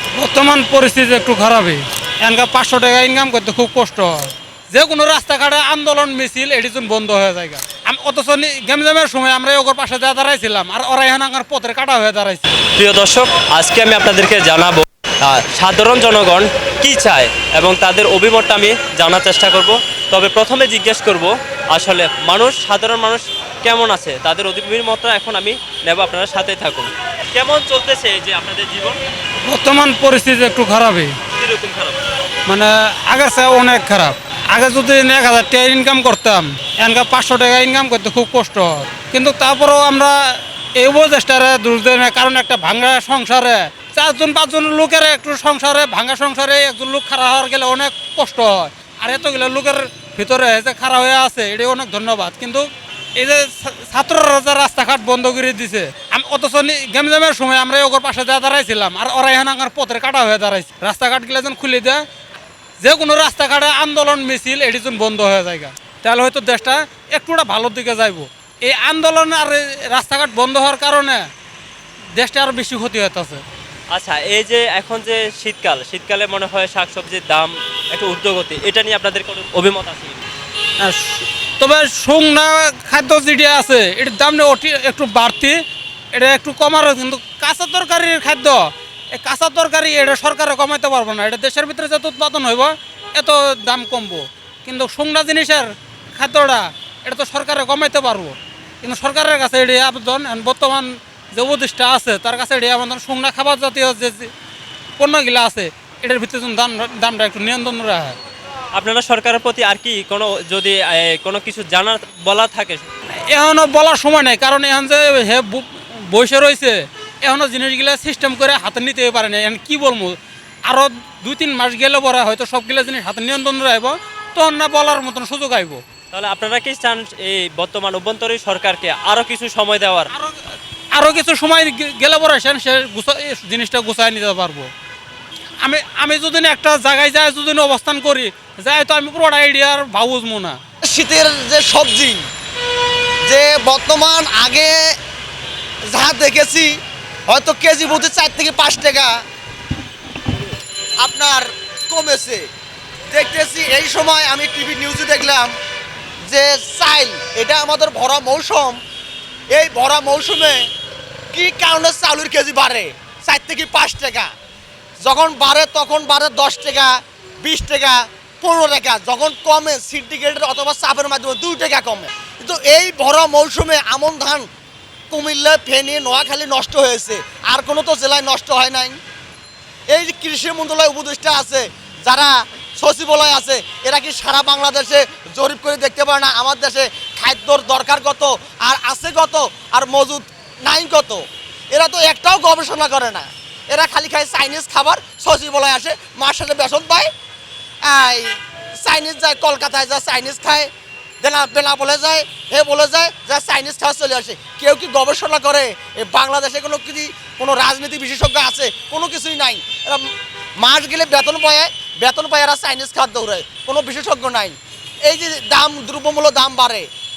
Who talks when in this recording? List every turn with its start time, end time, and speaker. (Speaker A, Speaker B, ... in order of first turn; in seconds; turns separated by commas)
Speaker A: 0.1-12.6, Speaker B: 12.7-29.0, Speaker A: 29.4-31.2, Speaker B: 31.3-32.0, Speaker A: 32.5-62.0, Speaker A: 62.8-71.3, Speaker A: 72.2-73.4, Speaker B: 73.9-80.2, Speaker A: 80.8-85.6, Speaker A: 86.1-104.3, Speaker A: 105.0-108.2, Speaker B: 108.7-112.9, Speaker A: 113.2-125.8, Speaker B: 126.1-130.1, Speaker A: 130.1-134.7, Speaker A: 135.6-140.6, Speaker C: 140.8-142.2, Speaker C: 143.2-145.0, Speaker C: 145.9-149.2, Speaker C: 151.0-152.5, Speaker C: 153.1-155.5, Speaker C: 156.3-158.8, Speaker C: 159.5-160.7, Speaker C: 161.3-164.3, Speaker C: 165.0-174.5, Speaker C: 175.1-179.0, Speaker C: 179.9-197.1, Speaker C: 197.8-200.7, Speaker C: 201.2-216.9